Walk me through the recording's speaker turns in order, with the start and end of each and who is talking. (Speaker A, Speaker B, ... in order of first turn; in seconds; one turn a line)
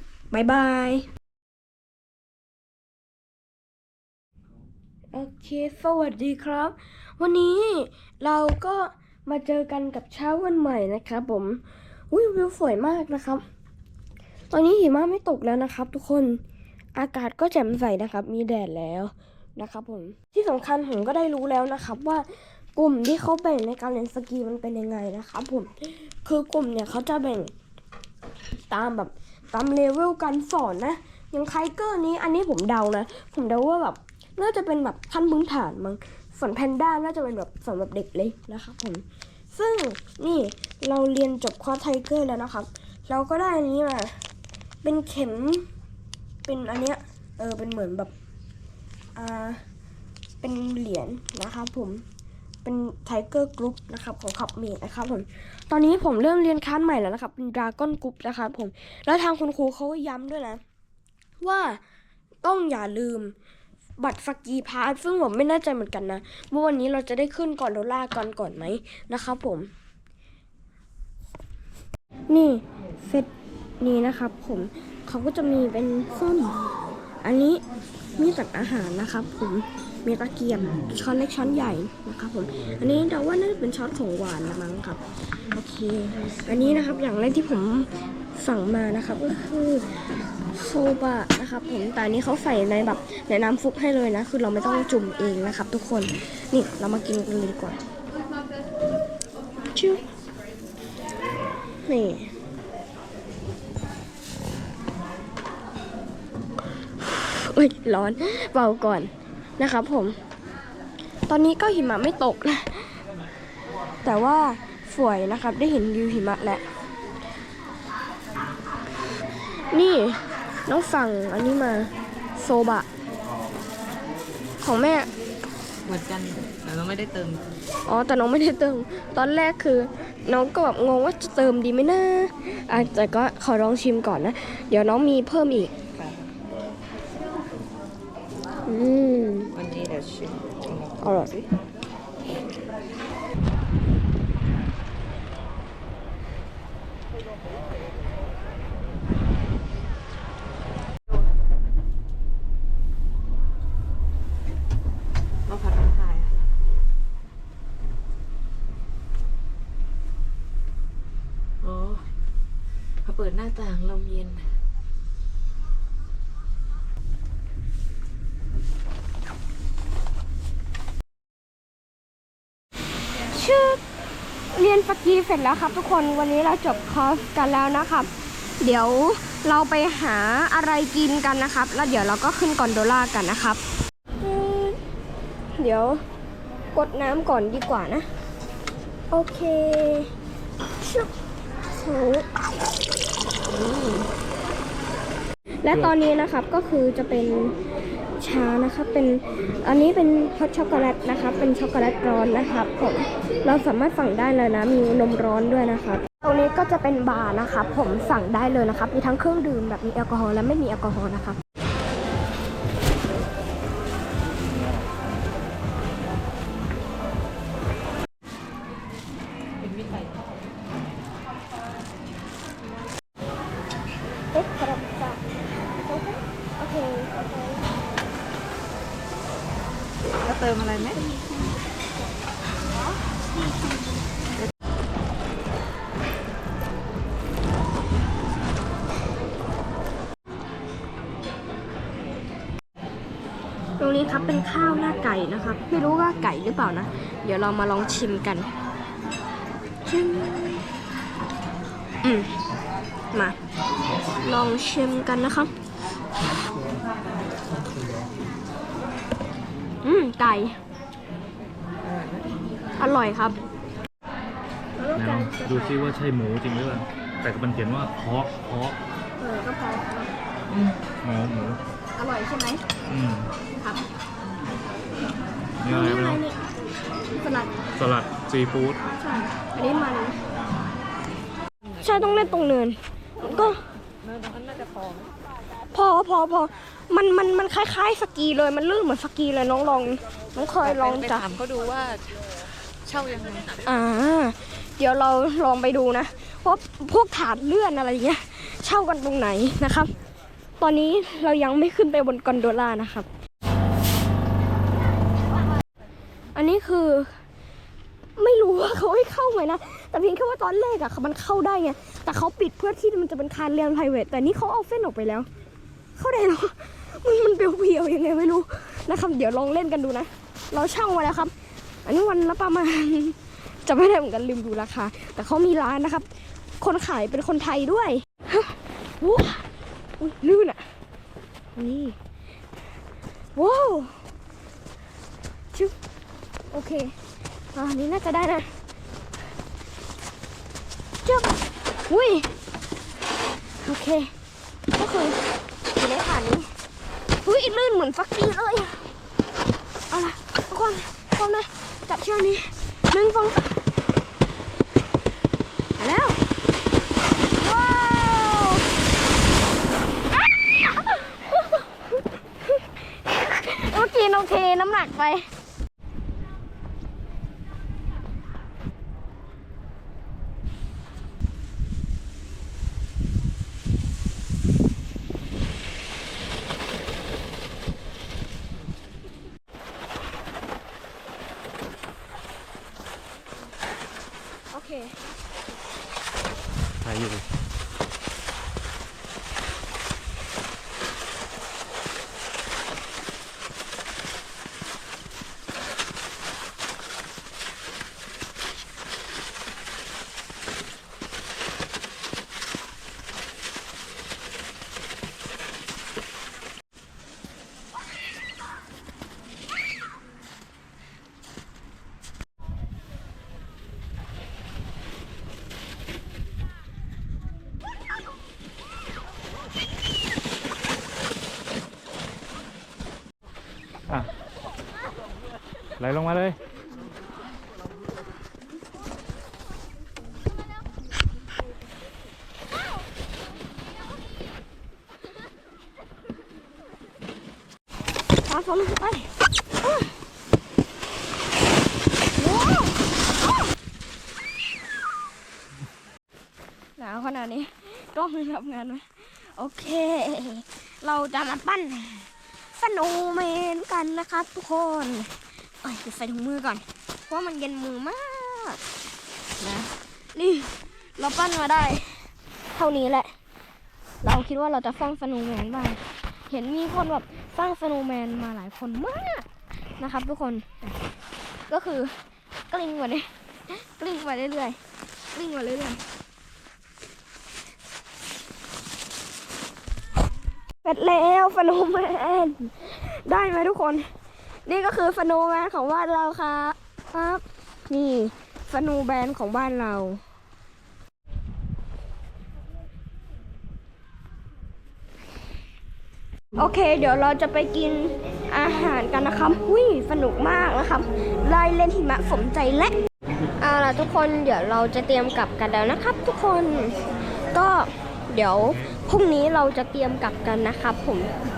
Speaker A: 0.3-1.1
Speaker A: 5.1-13.4
Speaker A: 14.5-16.4
Speaker A: 16.9-27.5
Speaker A: 28.7-44.1
Speaker A: 44.8-45.6
Speaker A: 46.4-48.1
Speaker A: 49.1-49.6
Speaker A: 50.4-52.0
Speaker A: 52.6-60.6
Speaker A: 61.4-61.8
Speaker A: 62.4-63.3
Speaker A: 64.0-69.7
Speaker A: 72.3-76.6
Speaker A: 77.2-77.6
Speaker A: 78.2-85.0
Speaker A: 85.5-89.8
Speaker A: 90.5-97.8
Speaker A: 99.7-100.0
Speaker A: 101.8-102.3
Speaker A: 107.3-110.2
Speaker A: 111.3-112.9
Speaker A: 114.0-116.6
Speaker A: 119.7-122.9
Speaker A: 124.6-125.1
Speaker B: 125.8-127.4
Speaker A: 127.8-135.8
Speaker B: 135.9-136.2
Speaker A: 138.7-139.5
Speaker B: 139.5-141.1
Speaker A: 141.0-141.4
Speaker B: 155.4-156.3
Speaker B: 161.6-162.0
Speaker B: 163.0-164.5
Speaker A: 173.3-173.8
Speaker A: 174.5-183.6
Speaker A: 184.2-184.8
Speaker A: 185.6-186.0
Speaker A: 186.7-188.1
Speaker A: 189.1-190.1
Speaker A: 190.8-191.1
Speaker A: 191.7-192.3
Speaker A: 193.5-194.1
Speaker A: 195.6-197.5
Speaker A: 198.2-211.4
Speaker B: 219.6-220.6
Speaker A: 224.3-225.2
Speaker A: 225.8-227.7
Speaker B: 230.2-231.0
Speaker A: 230.9-231.6
Speaker A: 243.8-248.5
Speaker A: 249.8-250.5
Speaker A: 252.0-252.3
Speaker A: 253.1-253.4
Speaker A: 254.2-255.5
Speaker A: 259.8-260.6
Speaker B: 261.8-262.3
Speaker A: 262.8-263.4
Speaker A: 264.8-265.8
Speaker C: 264.9-268.8
Speaker A: 269.2-270.1
Speaker B: 270.5-270.8
Speaker C: 271.0-271.6
Speaker A: 271.9-272.6
Speaker C: 272.9-273.3
Speaker C: 275.6-276.2
Speaker A: 275.6-276.4
Speaker A: 277.2-277.5
Speaker C: 277.7-278.8
Speaker A: 279.0-280.2
Speaker B: 281.8-282.5
Speaker A: 281.8-283.6
Speaker B: 283.2-285.1
Speaker A: 285.7-291.4
Speaker B: 290.6-292.3
Speaker B: 292.8-293.6
Speaker A: 293.6-299.9
Speaker A: 300.6-303.1
Speaker A: 306.3-307.2
Speaker A: 308.2-315.3
Speaker A: 315.9-321.3
Speaker A: 321.8-326.1
Speaker A: 326.6-329.4
Speaker A: 330.0-330.7
Speaker A: 331.5-332.0
Speaker A: 333.3-334.1
Speaker A: 336.5-336.9
Speaker A: 337.5-338.5
Speaker A: 341.0-342.3
Speaker A: 343.6-344.1
Speaker A: 344.7-345.2
Speaker A: 345.7-346.5
Speaker A: 347.2-348.8
Speaker A: 349.9-353.6
Speaker A: 355.8-356.2
Speaker A: 357.4-358.6
Speaker A: 360.5-365.3
Speaker A: 384.5-385.0
Speaker C: 386.8-387.3
Speaker C: 425.8-426.4
Speaker A: 438.2-439.1
Speaker A: 442.2-442.8
Speaker A: 446.8-458.6
Speaker A: 459.4-463.1
Speaker A: 464.0-469.3
Speaker A: 469.8-470.8
Speaker A: 471.5-471.9
Speaker A: 472.5-475.8
Speaker A: 480.6-483.9
Speaker A: 484.4-490.0
Speaker A: 496.4-502.8
Speaker A: 503.4-506.8
Speaker A: 507.3-511.1